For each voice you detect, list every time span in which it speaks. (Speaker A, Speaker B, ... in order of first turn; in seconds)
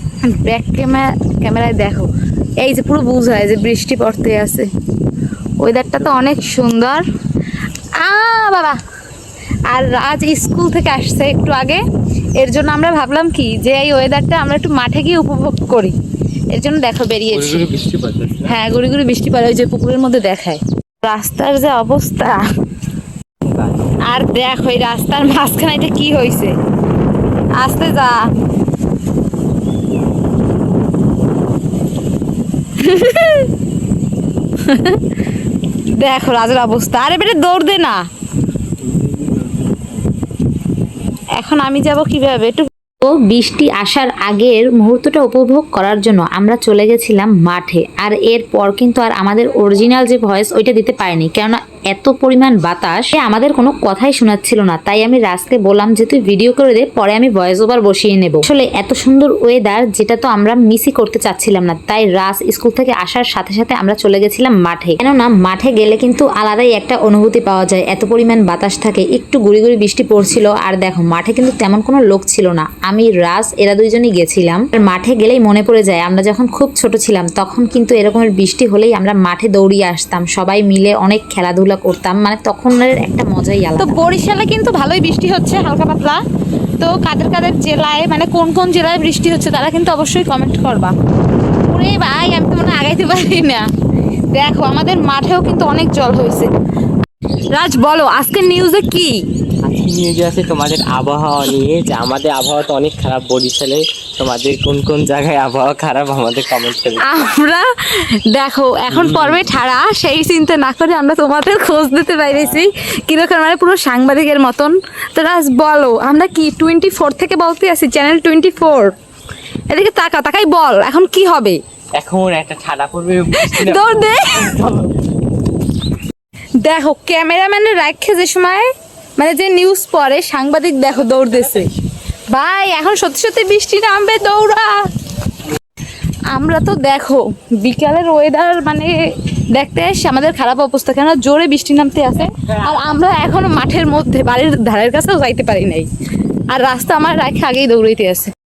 Speaker A: 0.2-4.7, 5.6-7.0, 8.0-8.8, 9.7-11.8, 12.4-15.9, 16.5-17.7, 18.4-22.4, 24.1-26.5, 27.6-28.3, 32.8-33.5, 34.6-35.0, 36.0-38.0, 41.3-42.7, 83.8-86.2, 86.8-90.9, 91.7-93.7, 94.3-96.5, 97.5-99.2, 107.0-118.9, 119.7-121.6, 123.3-124.5, 126.6-131.7, 132.3-134.9, 136.3-145.9, 146.5-148.3
Speaker B: 17.3-18.5, 23.4-23.8, 38.9-39.5, 99.6-107.0, 108.9-109.5, 122.0-124.9
Speaker C: 43.0-84.0